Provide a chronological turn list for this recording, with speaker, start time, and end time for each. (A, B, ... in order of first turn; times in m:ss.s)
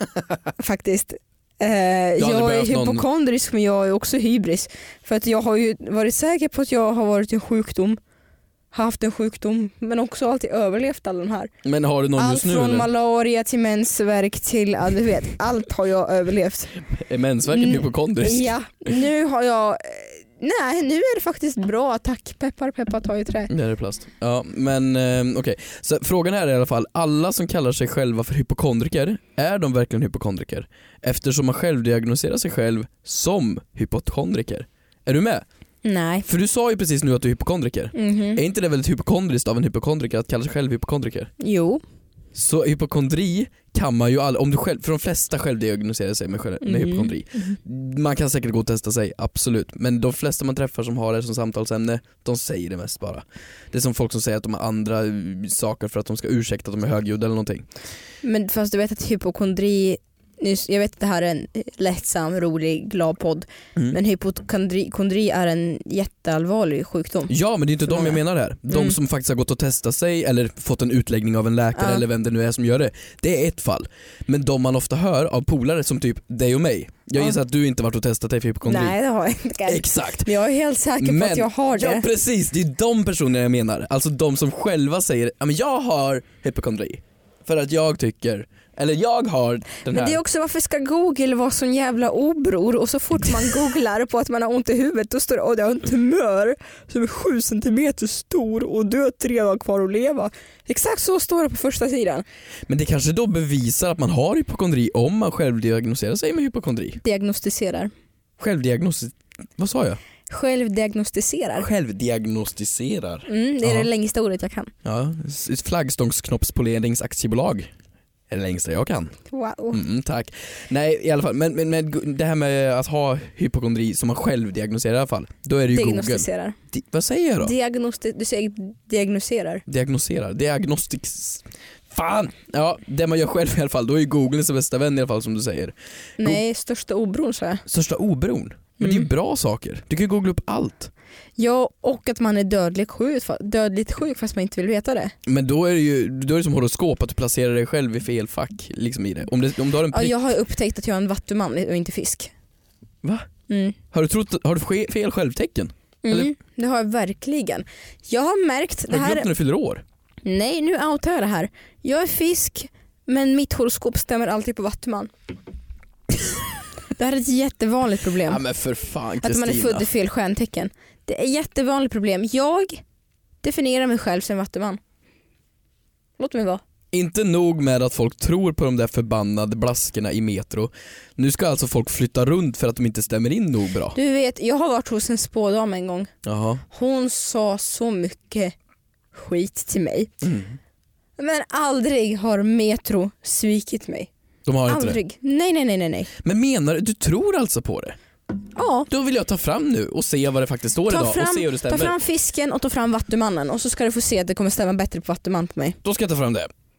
0:00.6-0:08.0 A
0:02.2-0:03.0 B
0:08.7-0:11.5 A
0:11.6-0:12.9 B
0:12.2-0:16.7 A
0:16.9-0:18.5 B
0:17.5-0:23.5 A
0:23.5-0:35.4 B
0:35.8-0:36.2 A
0:36.3-0:41.3 B
0:38.0-0:38.4 A
0:41.4-0:41.8 A
0:42.3-0:57.7 B
0:46.6-0:47.6 A
0:58.2-1:07.3 A
1:07.3-1:19.0 B
1:07.9-1:09.0 A
1:11.8-1:12.0 A
1:18.6-1:22.1 A
1:19.6-1:20.3 B
1:21.0-1:30.2 B
1:29.9-1:42.2 A
1:42.7-1:47.0 B
1:47.0-1:47.9 A
1:48.4-1:50.0 B
1:50.3-1:51.7 A
1:51.6-1:53.9 B
1:53.3-1:54.7 A
1:54.8-1:57.7 B
1:58.3-1:59.2 B
1:59.3-1:59.8 A
1:59.7-2:07.5 B
2:05.7-2:06.6 A
2:07.4-2:09.6 A
2:09.7-2:16.4 B
2:16.2-2:17.6 A
2:17.7-2:20.9 B
2:18.8-2:19.1 A
2:21.4-2:25.1 A
2:25.2-2:30.2 B
2:29.9-2:32.3 A
2:33.0-2:33.3 B
2:33.5-2:33.8 A
2:33.9-2:36.3 B
2:36.0-2:39.3 A
2:38.9-2:39.8 B
2:40.2-2:45.1 A
2:47.0-2:48.4 A
2:48.2-2:49.9 B
2:49.2-2:52.8 A
2:53.4-2:54.8 A
2:56.2-2:56.6 A
2:56.9-3:04.0 B
3:04.0-3:06.1 A
3:06.2-3:06.6 B
3:06.7-3:08.5 A
3:09.1-3:10.1 A
3:10.2-3:10.6 B
3:11.2-3:14.1 A
3:14.5-3:15.0 B
3:14.7-3:16.1 A
3:16.2-3:18.0 B
3:18.6-3:18.9 A
3:18.9-3:22.0 B
3:20.9-3:25.8 A
3:25.8-3:26.5 B